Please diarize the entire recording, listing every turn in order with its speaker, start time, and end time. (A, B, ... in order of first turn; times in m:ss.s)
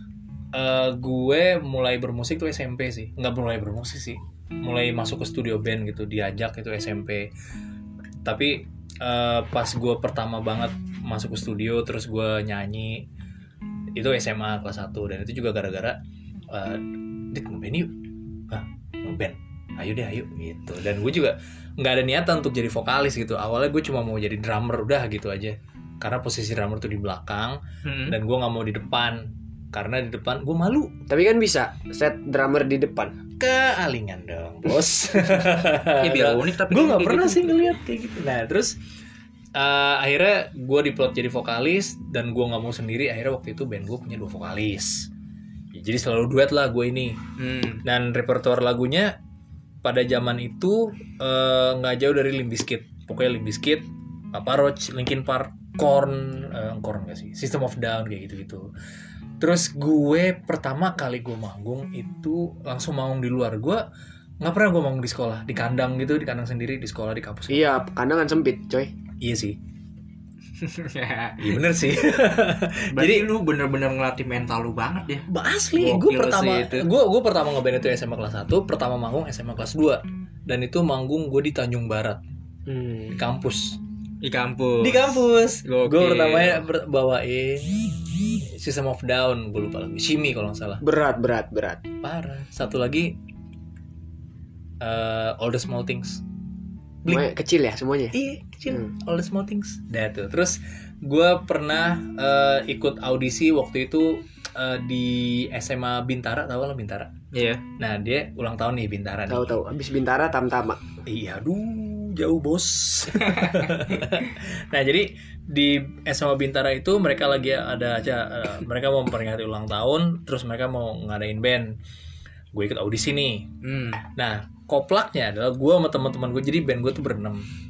0:00.5-0:07.3 A
0:08.2-0:13.0 A
0:13.9-0:16.0 A
0:16.5-0:17.9 A
0:18.5-0:30.9 A
0:27.8-0:28.2 B
0:31.1-0:33.2 C
0:33.4-0:38.8 A
0:36.0-0:37.6 B
0:39.5-0:45.1 A
0:45.7-0:47.2 A
0:47.4-0:47.8 B
0:47.8-0:49.2 A
0:49.8-0:58.7 A
0:59.4-1:03.8 A
1:04.4-1:07.7 A
1:07.5-1:08.9 C
1:09.2-1:09.6 A
1:10.6-1:11.6 B
1:11.4-1:13.3 A
1:12.9-1:15.3 B
1:15.3-1:22.2 A
1:15.8-1:16.9 B
1:22.7-1:23.2 C
1:23.1-1:23.8 A
1:24.2-1:26.6 B
1:24.8-1:30.8 A
1:30.8-1:31.8 C
1:32.0-1:33.2 A
1:34.8-1:36.2 A
1:37.0-1:38.2 C
1:38.1-1:47.1 A
1:47.3-1:47.6 B
1:47.8-1:49.6 A
1:49.3-1:50.8 C
1:51.0-2:01.7 A
1:53.2-1:53.6 B
2:02.5-2:03.5 A
2:03.6-2:04.0 B
2:04.0-2:07.4 A